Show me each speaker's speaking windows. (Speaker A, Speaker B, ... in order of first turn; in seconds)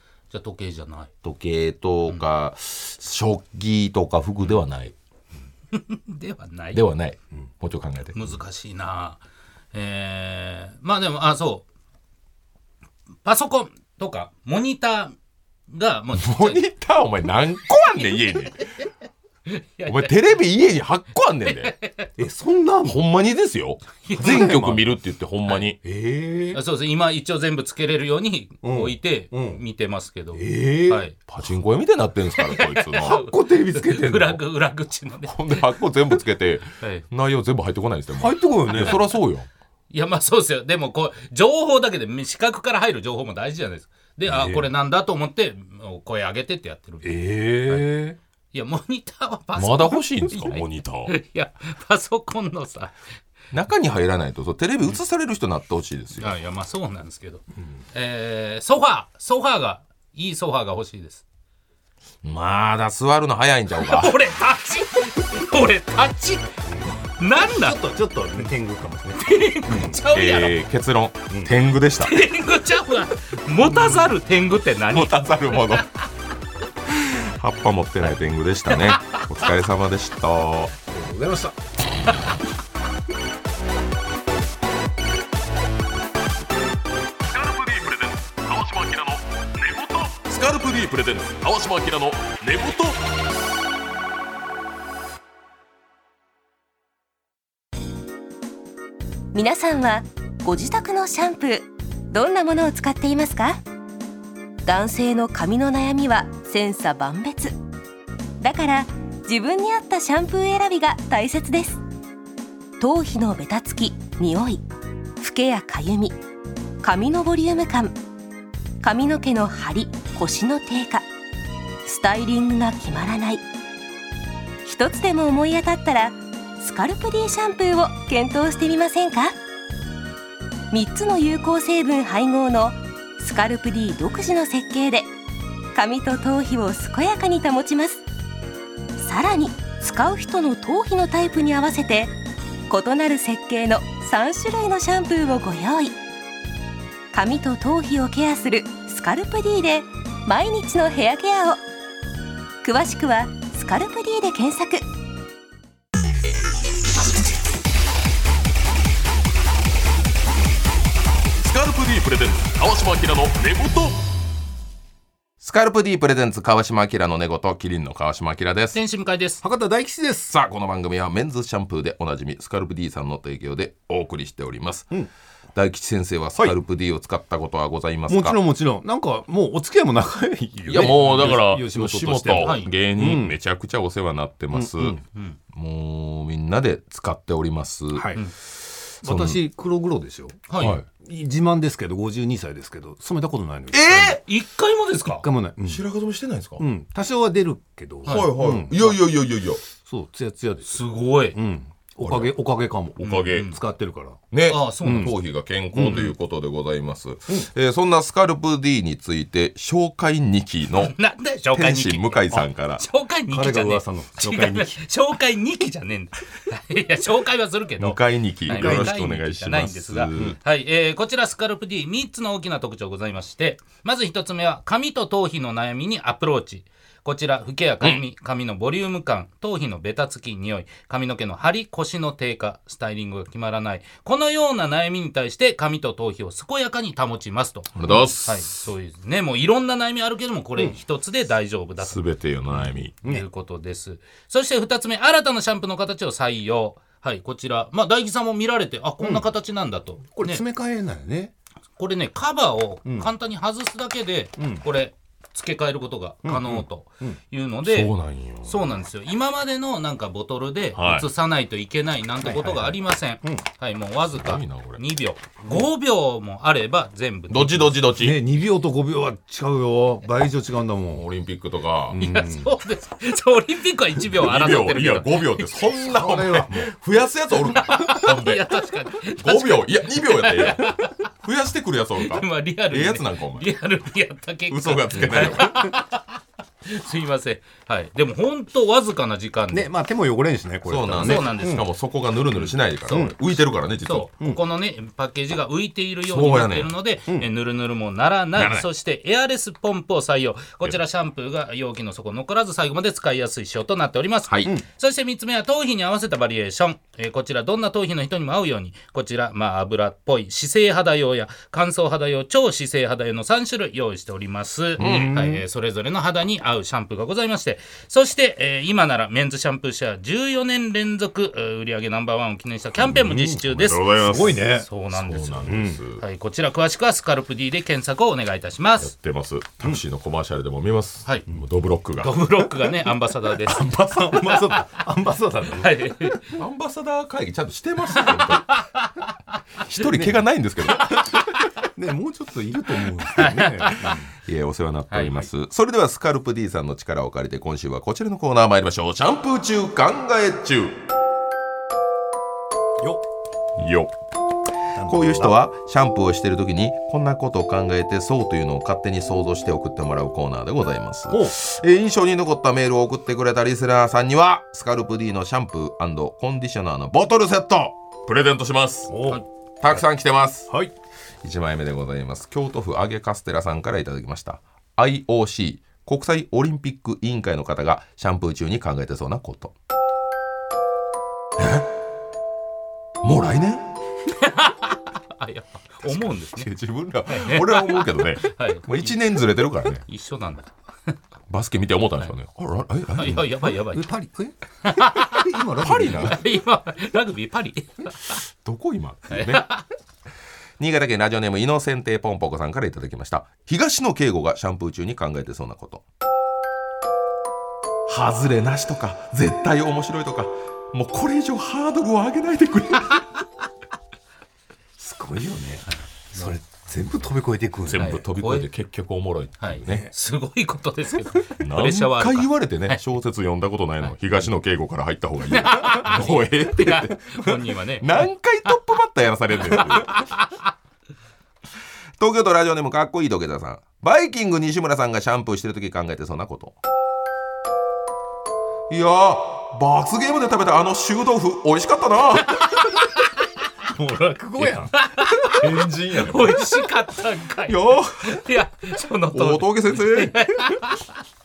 Speaker A: 0.3-1.1, 5.7-6.8, 8.1-9.2, 9.7-11.6, 13.2-15.2, 15.7-16.6, 19.5-20.1, 21.4-22.1, 24.0-24.5, 26.5-31.1, 32.4-35.6, 39.9-47.1, 48.5-53.0, 56.2-61.2, 63.7-67.8, 69.2-70.5, 72.0-75.9, 78.7-79.2, 168.7-169.4, 180.8-181.3, 182.4-182.7, 190.5-190.8, 194.2-195.2, 198.0-198.9, 200.7-201.4, 203.0-203.6, 204.5-205.1, 210.8-237.7, 238.2-242.0, 243.0-250.4, 251.8-257.9, 258.4-267.8, 271.9-275.6, 277.5-281.0, 282.0-289.7, 291.0-291.6, 293.9-328.9, 332.0-334.6, 335.6-336.3, 337.9-338.9, 343.1-343.9, 344.9-345.3, 384.1-386.5, 387.1-389.0, 389.9-390.9, 392.9-393.9, 394.6-395.3, 395.9-398.2, 399.1-399.6, 417.8-418.5, 419.4-422.8, 425.3-428.1, 429.5-430.3, 444.4-450.9
Speaker B: 1.2-4.9, 6.7-8.2, 16.1-18.8, 19.9-21.7, 22.8-25.8, 31.3-33.2, 35.3-39.5, 49.5-51.1, 53.5-56.3, 62.2-64.1, 70.1-72.3, 73.7-74.0, 74.9-75.8, 77.0-80.7, 87.3-93.0, 161.4-164.0, 165.4-168.8, 170.3-175.0, 175.5-178.4, 180.7-185.0, 185.5-188.2, 189.0-189.4, 190.6-190.8, 193.7-194.2, 195.6-196.6, 198.1-199.6, 202.0-202.3, 202.9-203.5, 204.3-210.9, 211.5-212.8, 217.8-220.4, 237.7-238.7, 241.8-242.9, 257.6-258.6, 260.7-261.1, 264.1-264.8, 267.3-268.2, 270.9-272.0, 274.1-278.4, 279.2-283.5, 284.5-285.7, 290.6-294.2, 296.0-296.7, 298.3-298.7, 304.3-304.5, 314.8-315.1, 323.4-326.0, 328.8-332.2, 336.4-338.6, 339.6-341.1, 344.2-350.8, 353.6-353.9, 354.8-370.5, 371.2-379.5, 381.4-381.7, 383.0-383.7, 385.8-389.9, 391.3-393.3, 395.6-396.2, 398.4-399.4, 400.6-405.8, 407.9-413.1, 417.7-419.9, 421.4-430.1, 432.0-436.6, 438.7-442.4, 445.2-446.5, 447.4-448.2, 449.1-450.6
Speaker C: 22.2-23.0, 24.2-24.8, 25.8-26.6, 28.6-29.6, 30.3-31.0, 33.0-34.4, 38.1-39.0, 44.3-44.7, 47.0-48.2, 66.7-70.0, 80.9-81.6, 169.4-170.3, 178.1-183.4, 184.5-185.0, 187.9-188.2, 189.0-194.2, 195.1-195.8, 196.6-198.9, 199.8-200.8, 201.3-204.2, 204.8-205.1, 205.7-206.1, 213.3-214.8, 218.5-218.9, 242.5-243.2, 249.0-249.3, 250.1-251.3, 252.8-253.1, 254.4-254.6, 256.2-257.2, 262.2-263.4, 267.9-271.0, 272.0-272.5, 275.8-276.7, 289.5-291.6, 292.9-293.1, 314.8-315.4, 322.8-324.7, 325.4-325.8, 332.0-335.7, 339.8-340.2, 340.8-341.2, 341.7-344.1, 354.7-355.4, 361.1-361.4, 368.9-369.2, 393.7-396.2, 414.8-418.0, 419.6-419.9, 443.7-444.8
Speaker D: 99.3-103.6, 104.6-107.5, 108.4-111.8, 112.8-114.6, 115.2-116.2, 116.8-118.0, 118.8-121.0, 121.8-123.4, 124.6-129.3, 130.7-135.1, 135.7-138.0, 139.0-142.1, 142.7-145.9, 147.1-151.6, 152.6-154.8